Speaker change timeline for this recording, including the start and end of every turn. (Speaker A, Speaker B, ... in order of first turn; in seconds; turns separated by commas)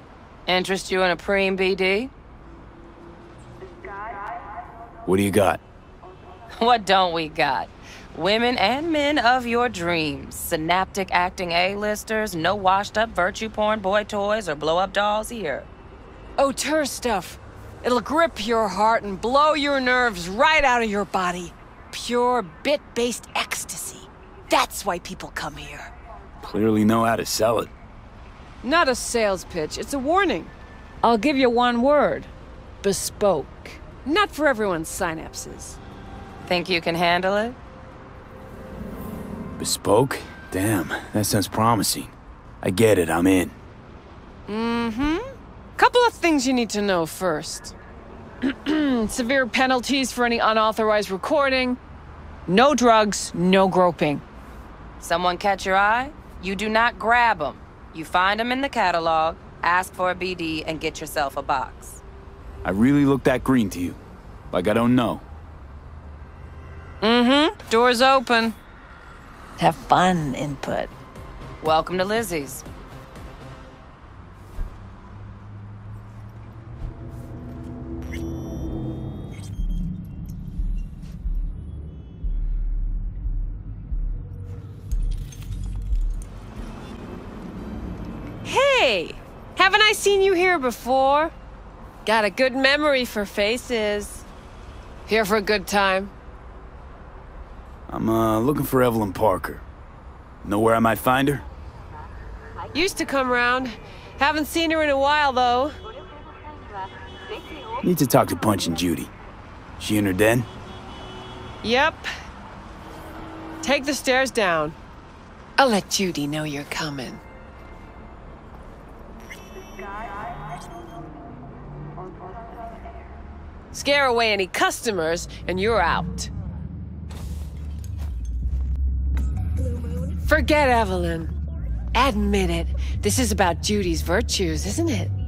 Speaker A: 0.5-2.1, Speaker B: 5.0-5.6, Speaker A: 6.6-15.7, Speaker C: 16.4-25.9, Speaker B: 26.4-27.7, Speaker C: 28.6-32.3, Speaker C: 32.8-35.8, Speaker A: 36.5-37.6, Speaker B: 39.6-43.5, Speaker C: 44.5-47.7, Speaker C: 48.4-51.8, Speaker C: 52.5-54.2, Speaker A: 55.0-62.0, Speaker B: 62.6-64.0, Speaker B: 64.5-65.2, Speaker C: 67.0-68.5, Speaker C: 69.6-70.9, Speaker A: 71.6-72.6, Speaker C: 88.4-91.3, Speaker C: 92.0-94.2, Speaker C: 95.0-96.1, Speaker B: 97.9-99.6, Speaker B: 100.4-101.4, Speaker C: 102.7-105.8, Speaker B: 107.8-109.1, Speaker B: 109.8-110.5, Speaker C: 111.6-112.1, Speaker C: 113.6-114.8, Speaker C: 115.6-117.2, Speaker C: 123.7-126.3, Speaker C: 130.2-131.3, Speaker C: 131.9-135.1